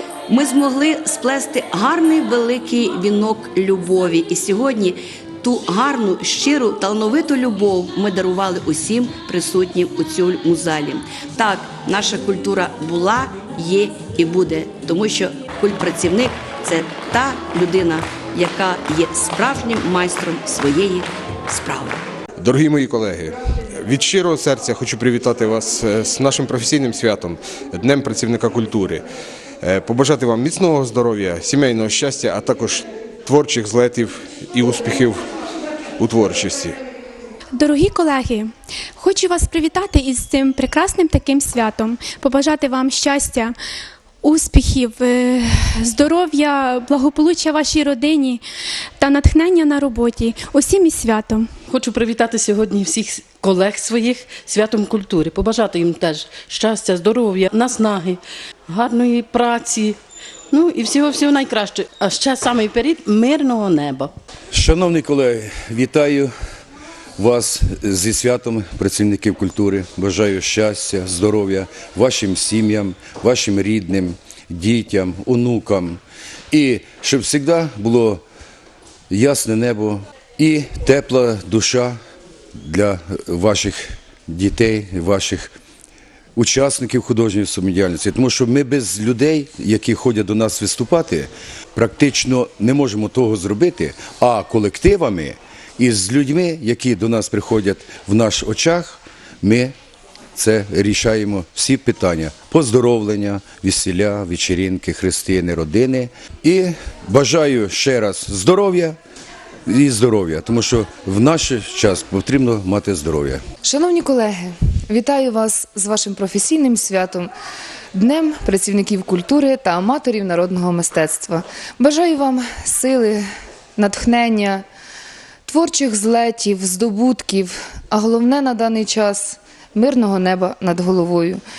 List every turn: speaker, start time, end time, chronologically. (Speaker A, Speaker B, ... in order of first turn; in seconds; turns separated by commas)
Speaker A: 0.3-22.0, Speaker B: 22.4-29.1, Speaker B: 29.6-35.2, Speaker B: 36.0-36.8, Speaker C: 37.5-43.5, Speaker C: 44.2-48.4, Speaker C: 49.0-51.5, Speaker D: 51.7-60.0, Speaker D: 60.5-64.1, Speaker E: 64.5-66.3, Speaker E: 67.2-76.0, Speaker E: 76.5-78.2, Speaker E: 79.1-82.0, Speaker E: 82.5-85.5, Speaker E: 86.3-99.7, Speaker E: 100.3-109.0, Speaker E: 109.7-113.4, Speaker F: 113.6-117.3, Speaker F: 117.9-123.2, Speaker F: 123.8-124.6, Speaker F: 125.5-131.4